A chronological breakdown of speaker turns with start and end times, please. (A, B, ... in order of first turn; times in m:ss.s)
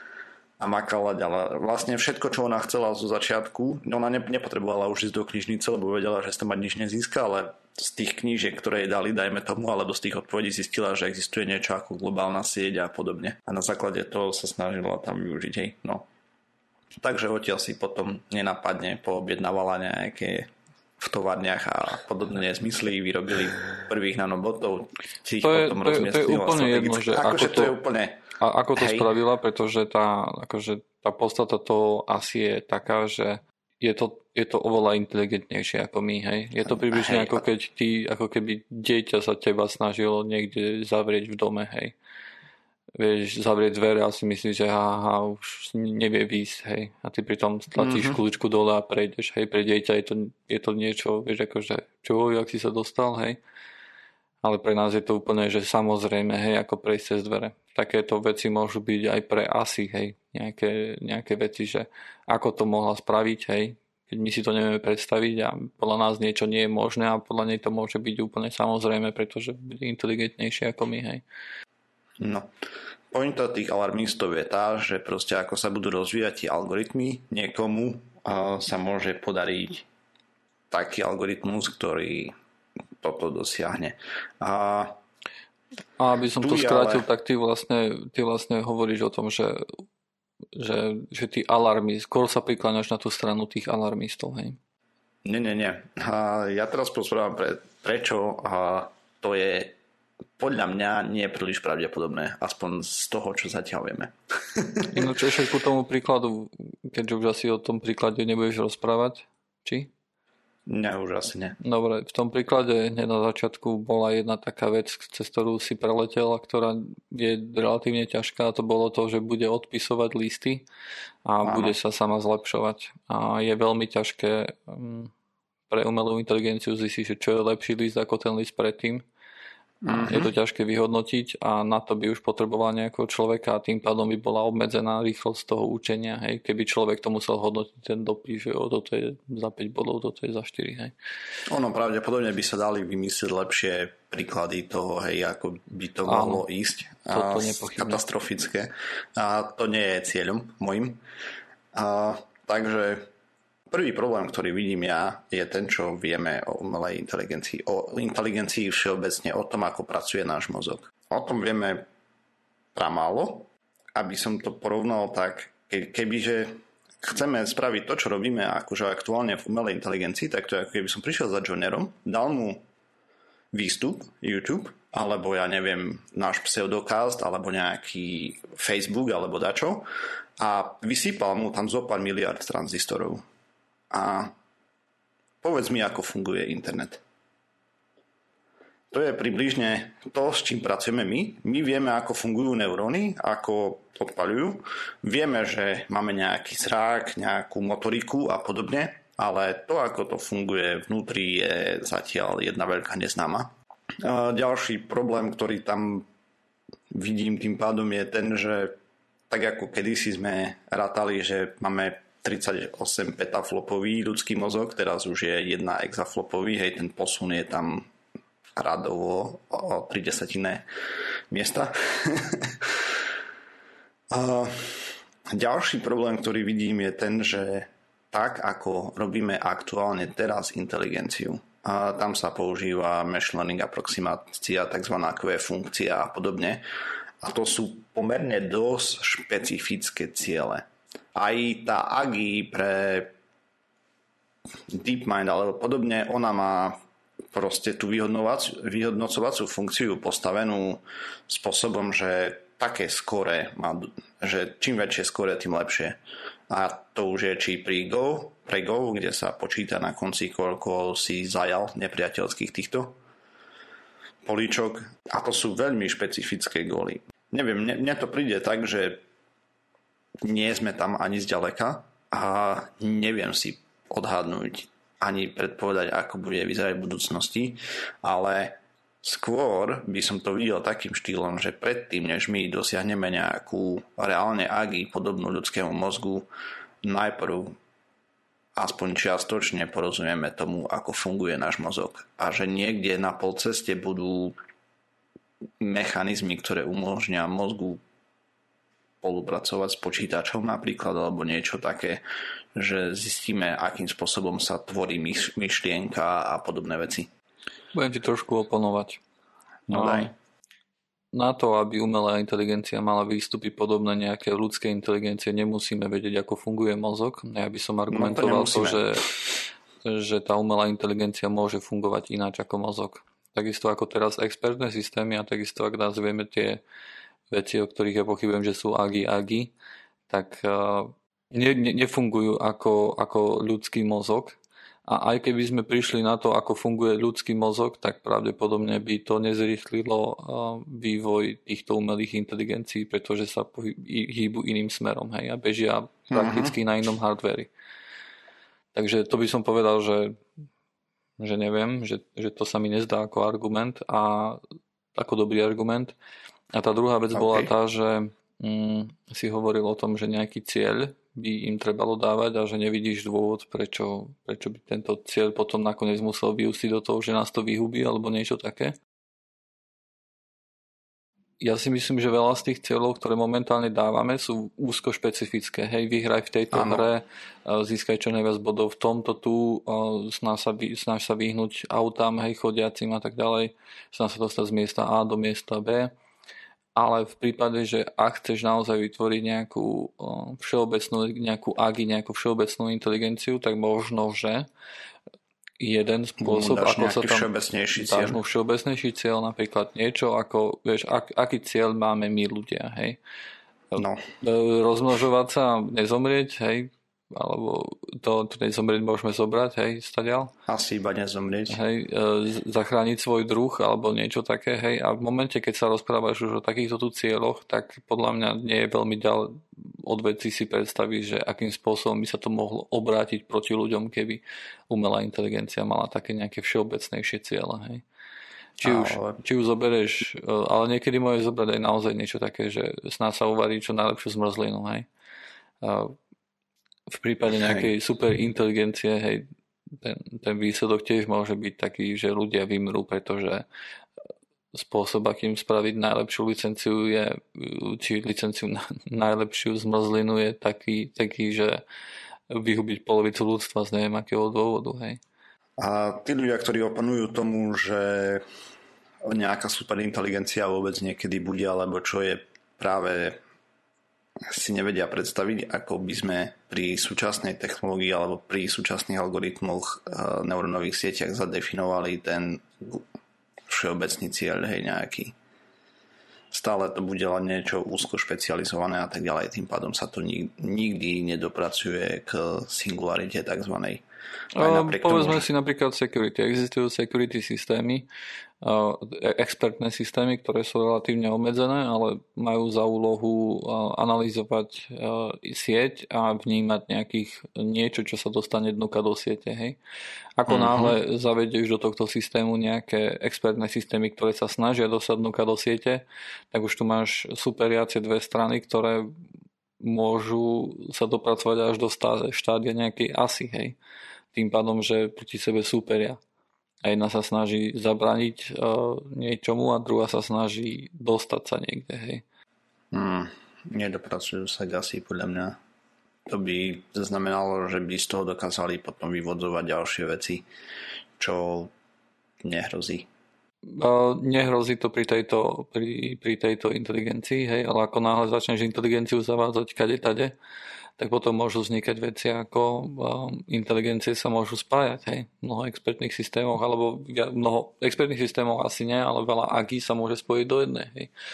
0:00.6-0:16.1 A
0:17.0-0:28.2 A
0:25.4-0:27.8 B
0:28.4-0:42.0 B
0:28.7-0:29.1 A
0:36.6-0:37.4 A
0:43.0-0:53.4 B
0:47.8-0:48.2 A
0:54.4-1:11.2 B
1:12.2-1:12.5 A
1:13.1-1:19.8 A
1:20.7-1:22.3 A
1:23.0-1:25.0 A
1:26.0-1:29.8 B
1:26.4-1:27.1 A
1:30.5-1:34.6 B
1:35.2-1:39.8 A
1:40.4-1:45.1 A
1:44.9-1:49.9 B
1:50.7-1:51.6 A
1:51.6-2:00.6 B
2:01.2-2:05.1 B
2:01.4-2:01.7 A
2:05.7-2:09.0 B
2:09.8-2:10.3 A
2:09.8-2:20.9 B
2:21.5-2:31.0 A
2:26.1-2:26.4 B
2:27.1-2:28.0 B
2:31.7-2:33.1 A
2:33.7-2:41.9 A
2:42.7-2:52.6 A
2:53.5-2:59.8 A
3:00.4-3:03.2 A
3:03.9-3:04.3 A
3:05.4-3:07.0 A
3:08.9-3:26.0 A
3:26.9-3:28.8 A
3:29.3-3:37.9 A
3:38.6-3:40.6 A
3:41.3-3:42.9 A
3:44.1-3:56.6 A
3:57.2-4:03.1 A
4:04.7-4:06.8 A
4:07.3-4:16.0 A
4:16.5-4:23.0 A
4:24.2-4:29.0 A
4:30.2-4:46.3 A
4:46.8-4:47.6 A
4:48.6-4:54.4 A
4:55.6-4:57.8 A
4:59.0-5:02.0 A
5:02.5-5:07.1 A
5:07.7-5:09.0 B
5:09.7-5:10.1 A
5:09.7-5:10.1 B
5:11.1-5:19.1 B
5:17.9-5:18.9 A
5:19.8-5:26.6 B
5:27.3-5:29.5 B
5:30.1-5:47.5 B
5:46.1-5:46.6 A
5:48.7-5:50.2 B
5:51.2-5:54.4 B
5:54.9-5:55.9 B
5:56.5-6:08.7 B
5:57.1-5:57.5 A
6:11.4-6:25.9 B
6:16.5-6:16.9 A
6:26.8-6:34.5 B
6:35.6-6:43.0 B
6:36.2-6:38.2 A
6:43.7-6:50.3 B
6:43.8-6:44.0 A
6:50.5-6:51.6 A
6:51.5-7:07.8 B
7:08.6-7:09.2 A
7:08.6-7:14.8 B
7:15.6-7:16.0 B
7:16.9-7:23.4 B
7:17.4-7:17.7 A
7:24.5-7:31.6 B
7:32.3-7:35.0 B
7:35.6-7:38.2 A
7:39.0-7:43.2 A
7:44.3-7:52.8 A
7:53.5-7:55.1 A
7:56.3-8:03.8 A
8:04.3-8:07.9 B
8:04.4-8:05.2 A
8:08.4-8:19.6 B
8:20.2-8:28.9 B
8:20.3-8:20.8 A
8:29.6-8:33.6 B
8:34.1-8:36.0 B
8:36.6-8:42.0 B
8:42.7-8:45.4 A
8:46.1-8:50.2 A
8:51.0-8:51.5 A
8:52.2-8:52.9 A
8:53.5-9:00.1 B
9:00.8-9:10.9 B